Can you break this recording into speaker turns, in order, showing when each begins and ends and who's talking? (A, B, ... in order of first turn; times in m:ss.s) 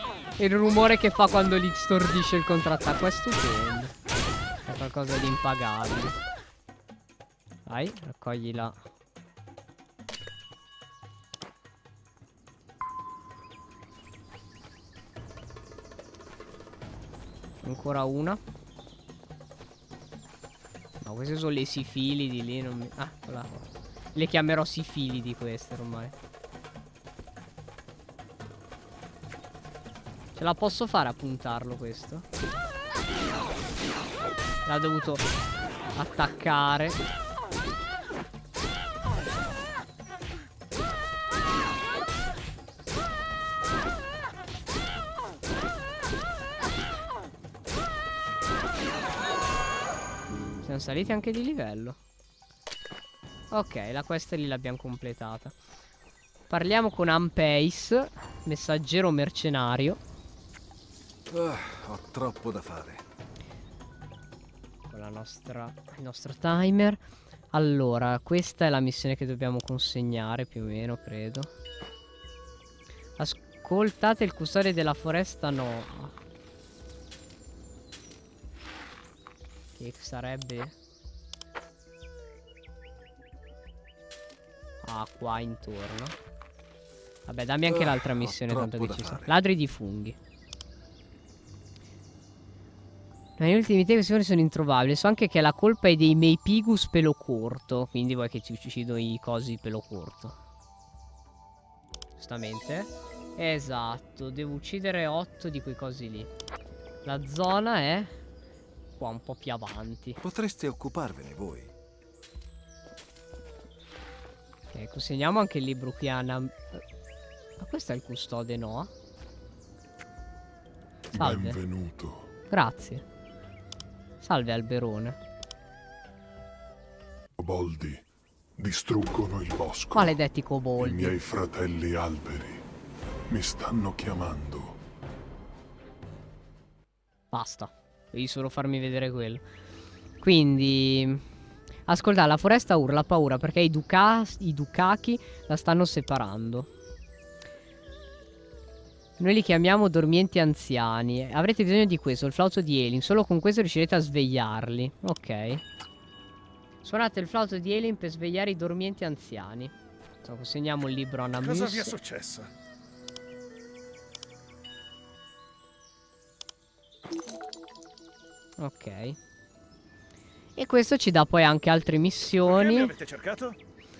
0:00.4-0:03.9 A
0:04.6-0:06.2 A
0:07.6-0:08.8 A
0:17.6-0:18.4 A
0:21.0-0:26.1 A
0:30.4-0:32.2 A
0:34.6-0:35.3 A
0:35.9-0:37.0 A
0:50.6-0:52.0 A
0:53.5-0:55.5 A
0:56.5-1:00.0 A
1:01.3-1:03.0 B
1:04.9-1:07.0 A
1:07.5-1:11.5 A
1:13.2-1:16.2 A
1:19.8-1:20.7 A
1:24.8-1:26.2 A
1:27.2-1:30.2 A
1:27.7-1:29.3 B
1:33.4-1:40.4 A
1:42.2-1:46.3 A
1:47.0-1:48.1 A
1:49.0-1:50.2 A
1:50.2-1:51.7 B
1:54.7-1:56.8 A
1:57.6-1:58.9 A
2:01.1-2:02.3 C
2:01.1-2:01.6 A
2:02.5-2:03.0 A
2:04.2-2:05.2 A
2:07.4-2:08.0 C
2:08.6-2:10.2 C
2:09.9-2:11.2 A
2:10.8-2:12.6 C
2:13.3-2:14.8 C
2:17.3-2:19.4 A
2:20.2-2:21.2 A
2:21.9-2:26.7 A
2:29.2-2:35.6 A
2:36.8-2:42.0 A
2:41.3-2:42.5 D
2:48.6-2:49.2 A
2:50.6-2:52.9 A
2:52.4-2:53.6 D